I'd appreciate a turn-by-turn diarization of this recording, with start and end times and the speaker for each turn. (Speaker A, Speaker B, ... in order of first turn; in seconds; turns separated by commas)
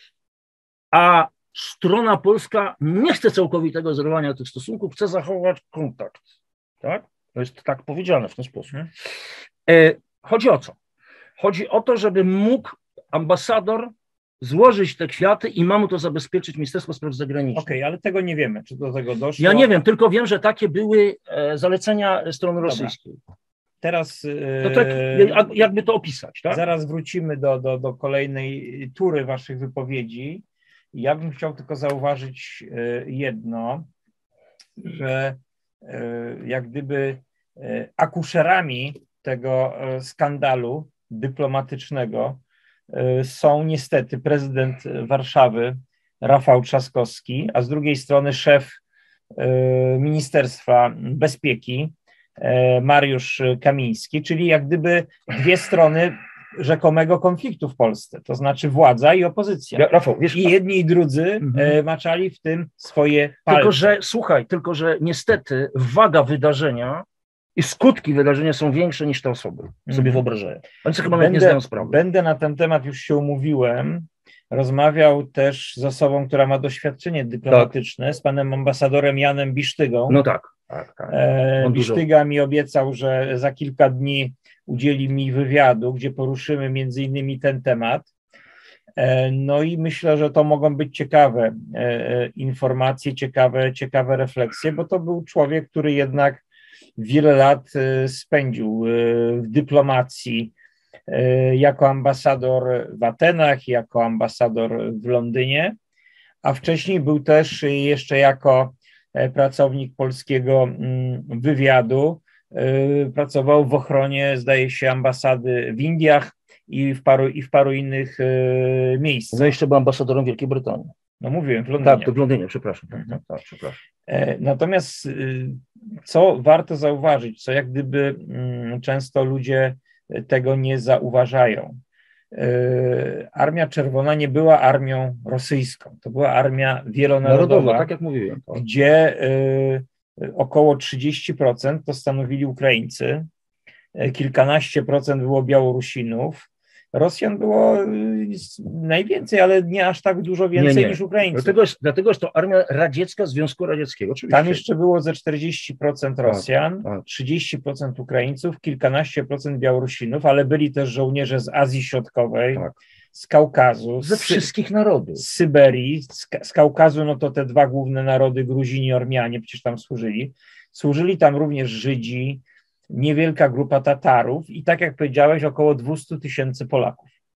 Speaker A: 0.9-6.2, Speaker A: 6.8-8.8, Speaker A: 9.7-10.8, Speaker A: 11.4-17.7, Speaker B: 17.5-19.7, Speaker A: 19.4-23.2, Speaker B: 22.6-22.9, Speaker B: 23.8-25.4, Speaker A: 24.6-26.6, Speaker B: 26.5-33.9, Speaker B: 34.8-48.8, Speaker B: 49.4-63.9, Speaker A: 59.8-60.5, Speaker A: 61.4-61.7, Speaker A: 63.5-67.0, Speaker A: 67.6-72.0, Speaker B: 69.9-70.2, Speaker B: 71.1-80.2, Speaker A: 80.1-82.0, Speaker B: 81.1-88.1, Speaker B: 89.0-96.4, Speaker B: 97.0-100.5, Speaker B: 101.1-105.8, Speaker B: 106.4-119.5, Speaker A: 119.3-120.9, Speaker B: 121.2-122.1, Speaker A: 121.8-123.8, Speaker B: 124.1-131.8, Speaker B: 132.3-137.9, Speaker A: 137.2-138.6, Speaker B: 138.5-143.3, Speaker B: 143.9-151.6, Speaker A: 150.6-154.6, Speaker B: 154.3-164.5, Speaker A: 156.3-157.0, Speaker A: 164.0-165.2, Speaker B: 165.2-177.1